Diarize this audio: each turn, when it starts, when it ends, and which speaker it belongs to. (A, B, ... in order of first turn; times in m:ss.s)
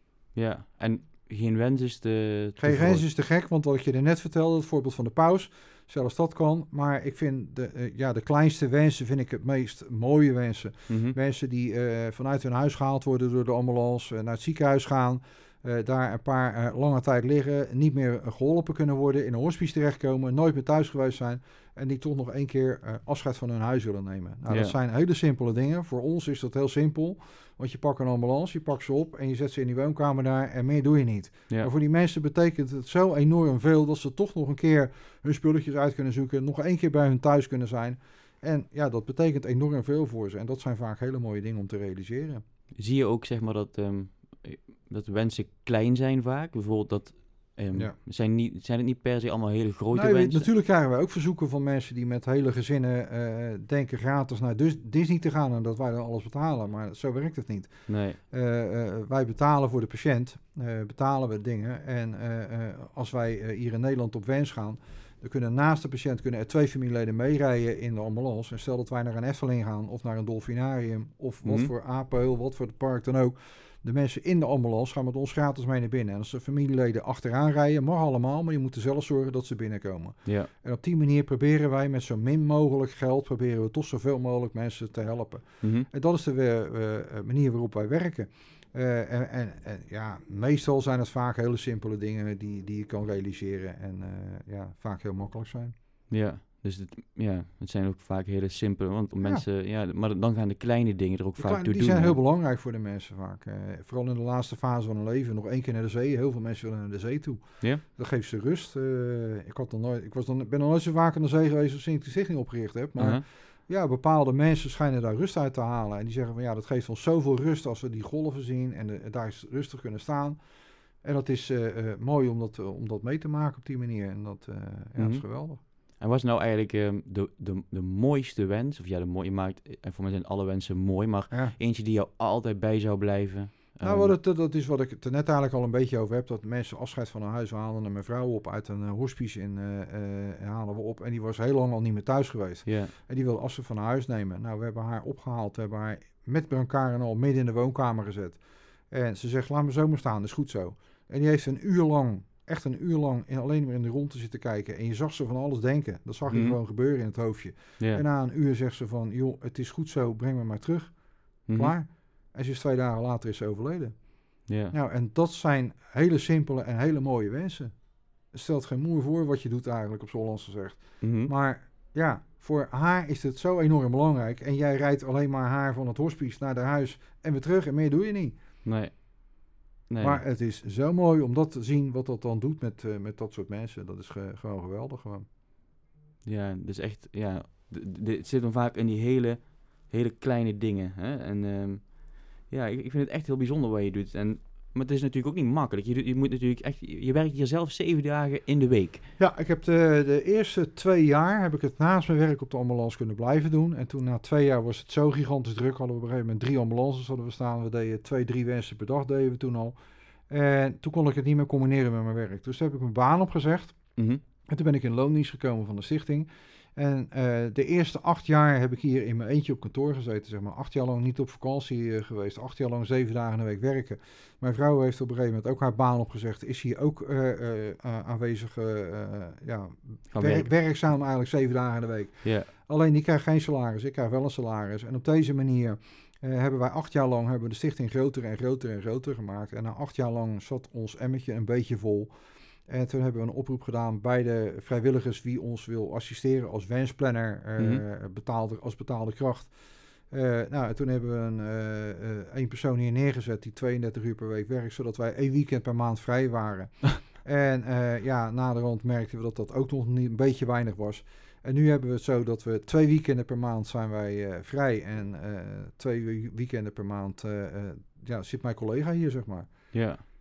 0:00.3-0:03.0 A
0:02.6-0:42.4 B
0:10.9-0:11.2 A
0:24.5-0:24.8 A
0:42.8-0:50.5 A
0:49.9-1:35.7 B
0:57.9-0:58.2 A
1:11.4-1:11.7 A
1:25.6-1:25.9 A
1:36.1-1:42.2 A
1:41.4-2:00.4 B
1:53.0-1:53.2 A
2:01.0-2:05.6 B
2:05.0-2:14.2 A
2:11.3-2:11.6 B
2:13.8-2:41.0 B
2:22.7-2:22.9 A
2:36.3-2:36.6 A
2:41.5-2:41.8 A
2:41.5-2:44.1 B
2:44.5-2:44.8 A
2:44.7-2:47.7 B
2:48.3-2:58.4 B
2:51.0-2:51.3 A
2:58.6-3:00.2 A
3:00.0-3:05.3 B
3:06.2-3:19.1 A
3:19.2-3:29.8 B
3:30.3-3:33.8 B
3:34.5-4:02.1 B
3:50.1-3:50.5 A
3:52.2-3:52.5 A
4:02.7-4:09.5 B
4:07.6-4:07.8 A
4:10.1-4:29.7 B
4:29.7-4:30.0 A